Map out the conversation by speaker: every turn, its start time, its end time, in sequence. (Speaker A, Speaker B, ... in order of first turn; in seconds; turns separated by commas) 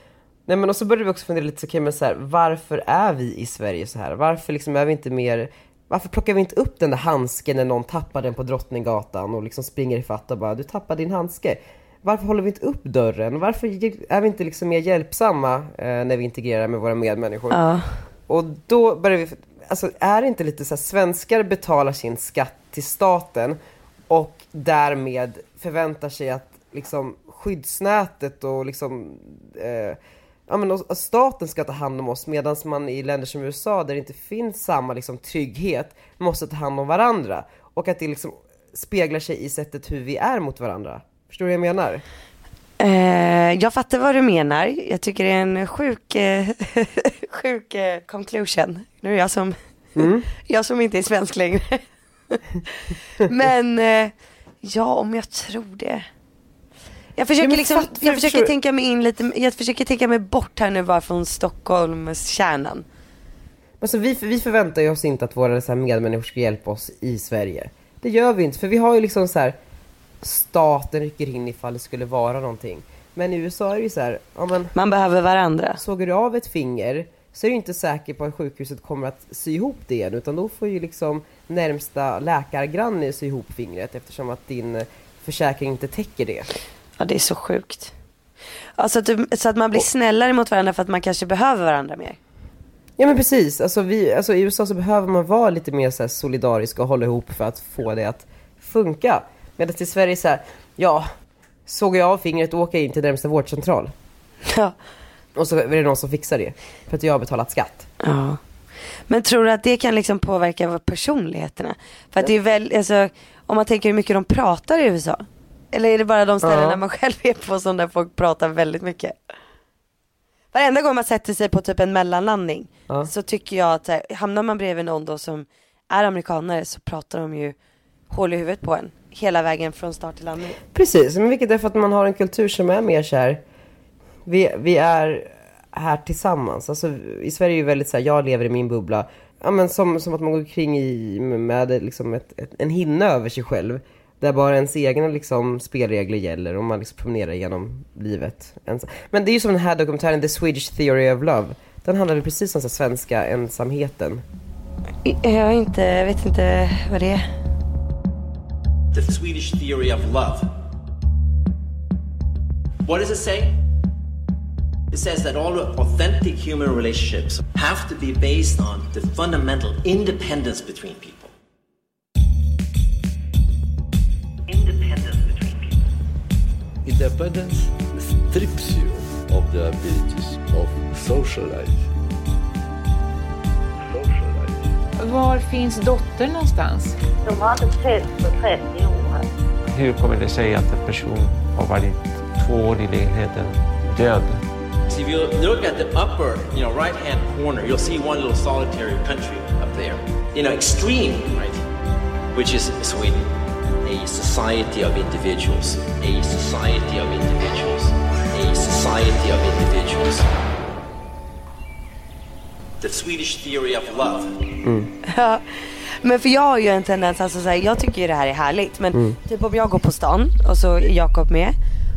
Speaker A: 0.5-17.6, Speaker B: 17.5-18.0, Speaker A: 18.3-23.6, Speaker A: 24.1-42.0, Speaker B: 42.8-49.6, Speaker A: 50.0-50.3, Speaker B: 50.4-56.0, Speaker B: 57.2-62.9, Speaker A: 57.4-58.5, Speaker A: 63.8-69.6, Speaker A: 70.2-74.7, Speaker B: 74.7-75.8, Speaker A: 75.8-86.5, Speaker B: 87.0-87.9, Speaker B: 88.8-92.2, Speaker A: 93.0-101.1, Speaker A: 101.7-103.9, Speaker B: 104.5-104.8, Speaker A: 105.3-107.9, Speaker B: 108.0-108.4, Speaker B: 109.1-119.2, Speaker A: 116.4-116.8, Speaker B: 120.5-127.5, Speaker B: 128.1-130.6, Speaker A: 130.7-133.4, Speaker A: 134.2-154.2, Speaker B: 155.0-157.2, Speaker C: 158.9-160.5, Speaker C: 162.8-163.6, Speaker C: 164.9-171.3, Speaker C: 174.5-175.8, Speaker D: 176.8-181.9, Speaker D: 183.9-184.7, Speaker E: 185.0-186.9, Speaker F: 187.2-189.2, Speaker G: 189.7-194.4, Speaker C: 194.9-201.6, Speaker C: 202.3-203.2, Speaker C: 203.8-210.3, Speaker C: 212.8-214.4, Speaker A: 214.6-214.9, Speaker B: 215.1-215.4, Speaker B: 216.0-221.6